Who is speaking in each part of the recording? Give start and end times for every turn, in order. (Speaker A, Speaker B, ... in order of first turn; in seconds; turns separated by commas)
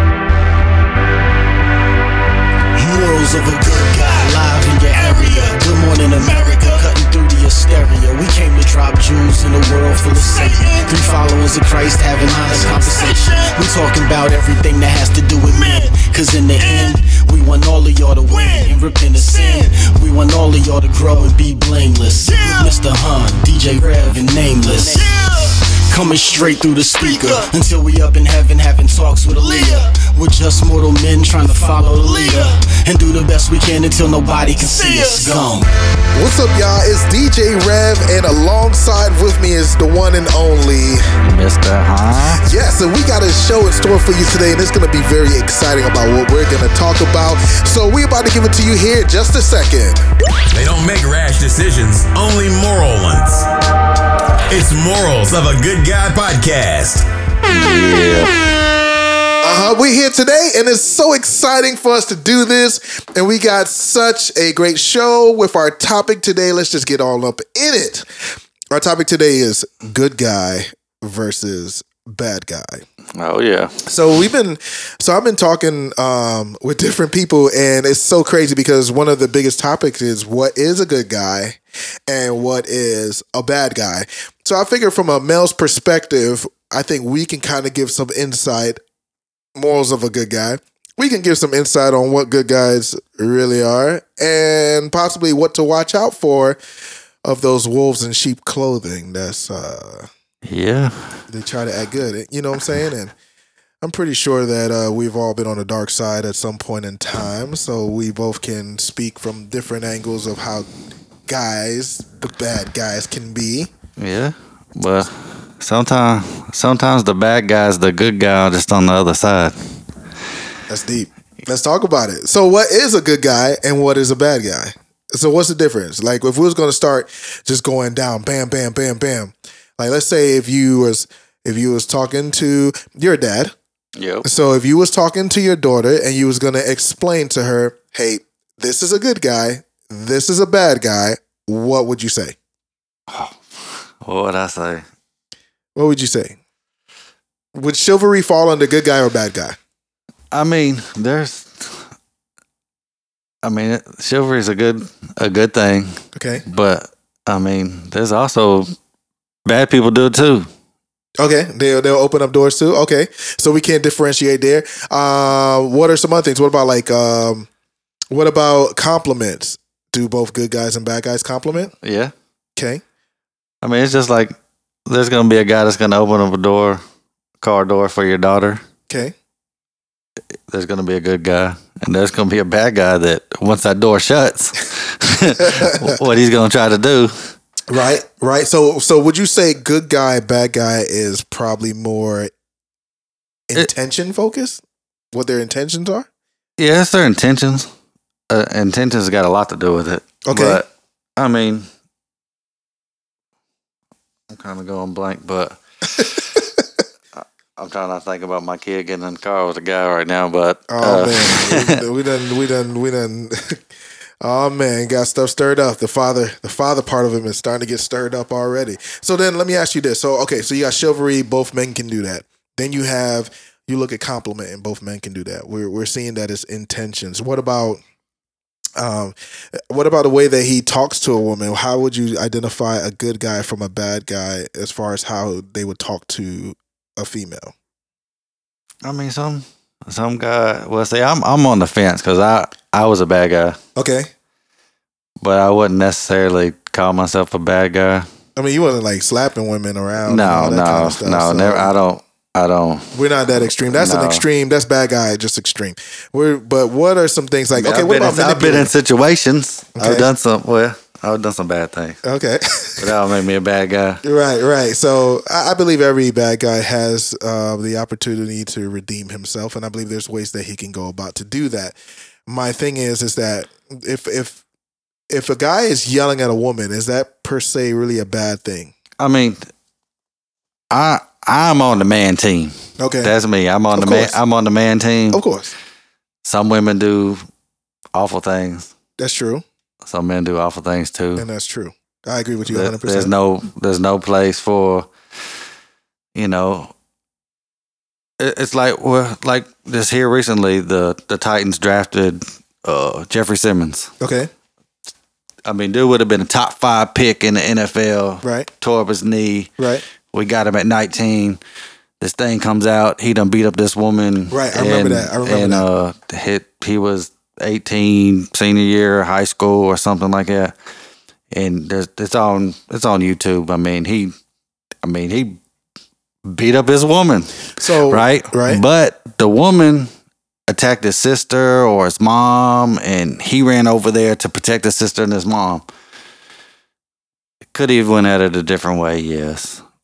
Speaker A: 2.7-35.7, Speaker B: 36.1-41.1, Speaker C: 41.2-42.4, Speaker B: 42.4-50.0, Speaker D: 50.5-53.5, Speaker D: 54.5-57.0, Speaker C: 57.5-58.3, Speaker B: 59.4-68.0, Speaker B: 68.7-72.8, Speaker C: 73.1-73.8, Speaker B: 73.8-88.8, Speaker B: 89.5-96.6, Speaker B: 97.2-100.1, Speaker C: 100.5-101.2, Speaker B: 101.3-103.1, Speaker B: 103.8-110.7, Speaker B: 111.3-113.7, Speaker C: 114.0-119.6, Speaker B: 120.7-133.5, Speaker C: 133.9-134.3, Speaker B: 134.2-142.3, Speaker C: 143.1-144.8, Speaker B: 145.7-146.4, Speaker B: 147.5-149.6, Speaker C: 150.3-151.9, Speaker C: 153.4-158.7, Speaker B: 156.1-156.4, Speaker C: 159.4-160.5, Speaker B: 161.2-167.5, Speaker B: 168.1-171.7, Speaker C: 171.8-172.1, Speaker B: 172.6-172.8, Speaker C: 173.6-174.3, Speaker C: 174.9-176.8, Speaker C: 177.4-178.6, Speaker B: 178.9-179.1, Speaker C: 180.5-187.3, Speaker B: 185.4-186.0, Speaker B: 187.7-192.3, Speaker B: 193.5-196.1, Speaker C: 196.6-197.7, Speaker C: 198.3-201.7, Speaker B: 200.2-200.6, Speaker C: 204.3-206.3, Speaker B: 206.3-206.6, Speaker C: 207.1-211.8, Speaker B: 210.7-213.6, Speaker B: 214.2-227.8, Speaker B: 228.8-237.5, Speaker C: 238.8-243.6, Speaker B: 243.8-244.1, Speaker C: 245.2-248.1, Speaker B: 248.3-251.7, Speaker C: 250.1-252.9, Speaker B: 252.9-258.7, Speaker C: 253.7-254.2, Speaker C: 257.5-262.0, Speaker B: 259.8-260.1, Speaker B: 262.0-262.9, Speaker C: 262.8-264.0, Speaker B: 264.0-271.8, Speaker B: 272.3-274.4, Speaker B: 275.1-278.7, Speaker C: 279.0-279.5, Speaker C: 280.7-285.2, Speaker B: 282.8-283.1, Speaker B: 283.7-284.2, Speaker B: 285.1-285.5, Speaker C: 286.2-287.2, Speaker C: 287.9-288.7, Speaker B: 289.0-289.4, Speaker C: 289.9-291.2, Speaker B: 291.2-293.1, Speaker C: 292.5-294.9, Speaker C: 296.1-296.7, Speaker C: 298.2-303.9, Speaker B: 304.0-304.3, Speaker C: 305.4-309.5, Speaker B: 308.2-308.5, Speaker B: 309.6-309.8, Speaker C: 310.1-311.4, Speaker C: 312.0-320.5, Speaker B: 314.3-315.6, Speaker C: 321.3-324.1, Speaker C: 324.8-325.4, Speaker C: 326.2-329.9, Speaker B: 327.6-328.6, Speaker C: 330.5-335.6, Speaker C: 337.5-339.6